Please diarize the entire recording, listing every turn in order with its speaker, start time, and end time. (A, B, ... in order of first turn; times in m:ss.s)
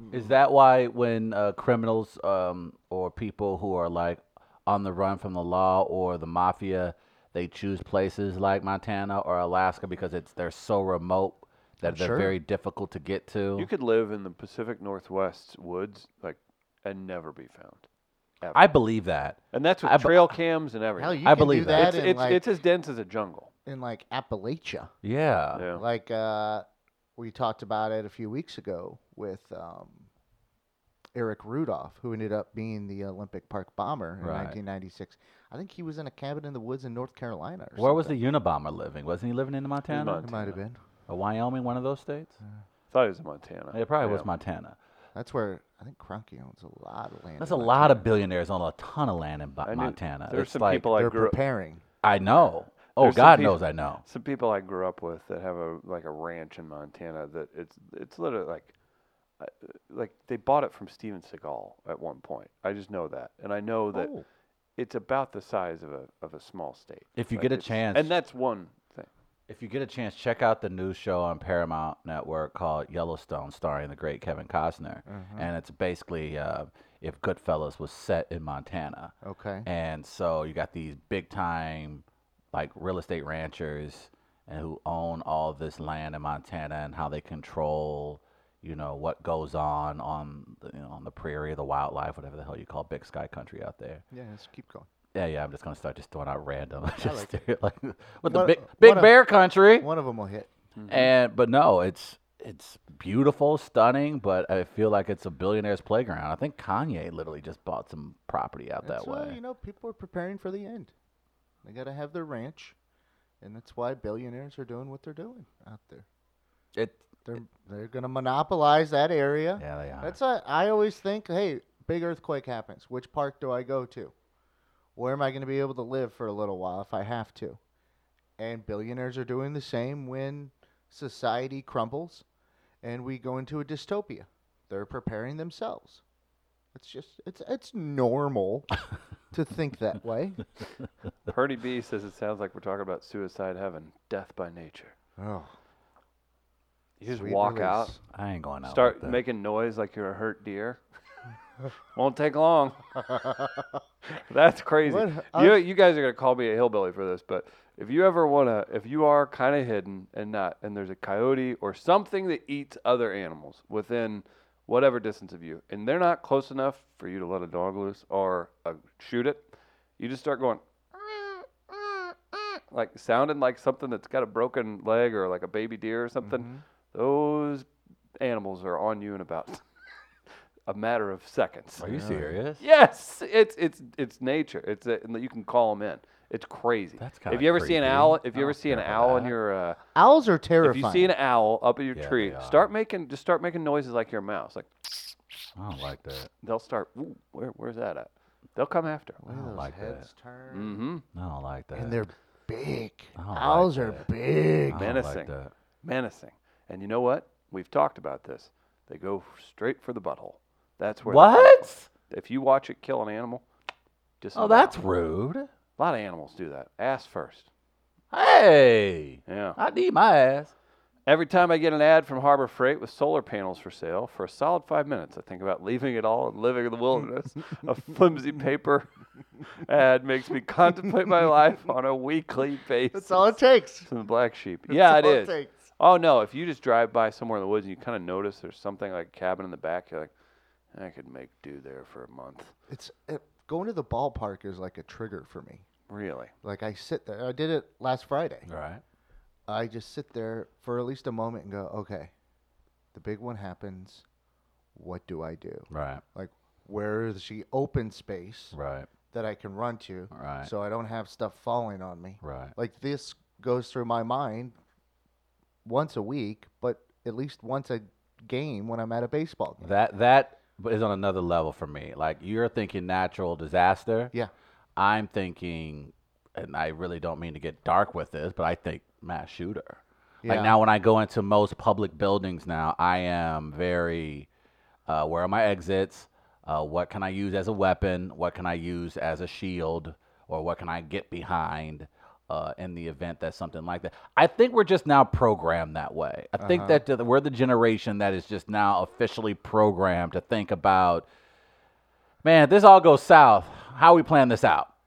0:00.1-0:13.7 A
0:11.8-0:12.4 B
0:13.6-0:17.8 C
0:18.5-0:20.3 A
0:19.5-0:23.5 C
0:21.0-0:22.4 B
0:21.2-0:22.0 A
0:23.7-0:24.9 B
0:25.0-0:25.6 A
0:25.5-0:25.8 C
0:25.7-0:26.6 B
0:27.2-0:30.1 B
0:31.2-0:38.2 B
0:34.2-0:34.6 A
0:37.8-0:40.6 A
0:39.9-0:40.3 C
0:40.2-0:40.8 B
0:41.1-0:42.4 A
0:42.9-0:44.3 C
0:43.7-0:44.8 A
0:45.2-0:48.1 B
0:47.4-0:50.9 A
0:49.6-0:51.4 C
0:51.0-0:51.8 B
0:52.0-0:54.0 A
0:53.0-0:58.7 C
0:59.4-1:04.1 C
1:04.8-1:09.1 C
1:07.2-1:08.1 A
1:09.5-1:19.1 A
1:15.1-1:15.5 B
1:19.2-1:19.7 B
1:19.7-1:34.0 A
1:34.1-1:34.9 B
1:35.1-1:39.9 A
1:37.0-1:37.4 B
1:38.3-1:40.5 B
1:40.8-1:41.1 C
1:40.9-1:49.4 A
1:48.8-1:50.9 B
1:51.6-1:52.8 B
1:53.4-1:56.0 B
1:56.8-1:57.1 A
1:57.3-2:04.1 B
1:59.6-2:00.2 A
2:05.0-2:07.6 B
2:08.4-2:12.2 B
2:12.8-2:16.0 B
2:16.7-2:18.7 B
2:19.3-2:20.5 B
2:21.3-2:25.0 C
2:25.2-2:25.5 B
2:27.0-2:27.9 C
2:27.1-2:28.0 B
2:28.1-2:29.2 A
2:28.6-2:30.8 C
2:32.0-2:32.8 C
2:34.1-2:50.6 C
2:34.8-2:35.6 B
2:52.7-2:57.7 C
2:56.2-2:56.6 B
2:58.2-2:59.6 C
3:00.7-3:01.9 C
3:01.8-3:02.6 A
3:01.9-3:02.3 B
3:02.6-3:09.8 C
3:07.0-3:09.4 A
3:10.0-3:11.1 B
3:10.6-3:15.2 C
3:12.0-3:12.7 A
3:15.6-3:16.3 A
3:16.4-3:19.2 C
3:19.2-3:20.8 B
3:19.3-3:20.1 A
3:20.5-3:21.0 C
3:21.1-3:22.0 A
3:21.7-3:24.9 B
3:23.2-3:24.1 A
3:24.7-3:25.5 A
3:24.7-3:33.4 C
3:31.1-3:31.9 A
3:34.2-3:34.8 C
3:34.4-3:35.5 A
3:35.8-3:37.5 C
3:38.1-3:40.5 A
3:39.3-3:39.6 C
3:41.1-3:48.9 C
3:49.5-4:00.1 C
3:52.9-3:53.9 B
3:54.7-3:55.6 B
4:00.7-4:02.5 C
4:02.7-4:05.6 B
4:05.9-4:06.3 C
4:06.4-4:08.5 B
4:08.5-4:08.8 A
4:09.5-4:12.1 B
4:12.9-4:14.0 B
4:14.8-4:18.6 B
4:15.7-4:16.0 A
4:18.5-4:18.9 A
4:19.1-4:24.6 B
4:20.1-4:20.5 A
4:22.2-4:22.5 A
4:25.6-4:29.8 B
4:29.6-4:34.1 A
4:34.8-4:44.3 A
4:40.2-4:40.6 B
4:44.9-5:01.1 A
4:56.4-4:56.8 B
5:02.2-5:04.7 A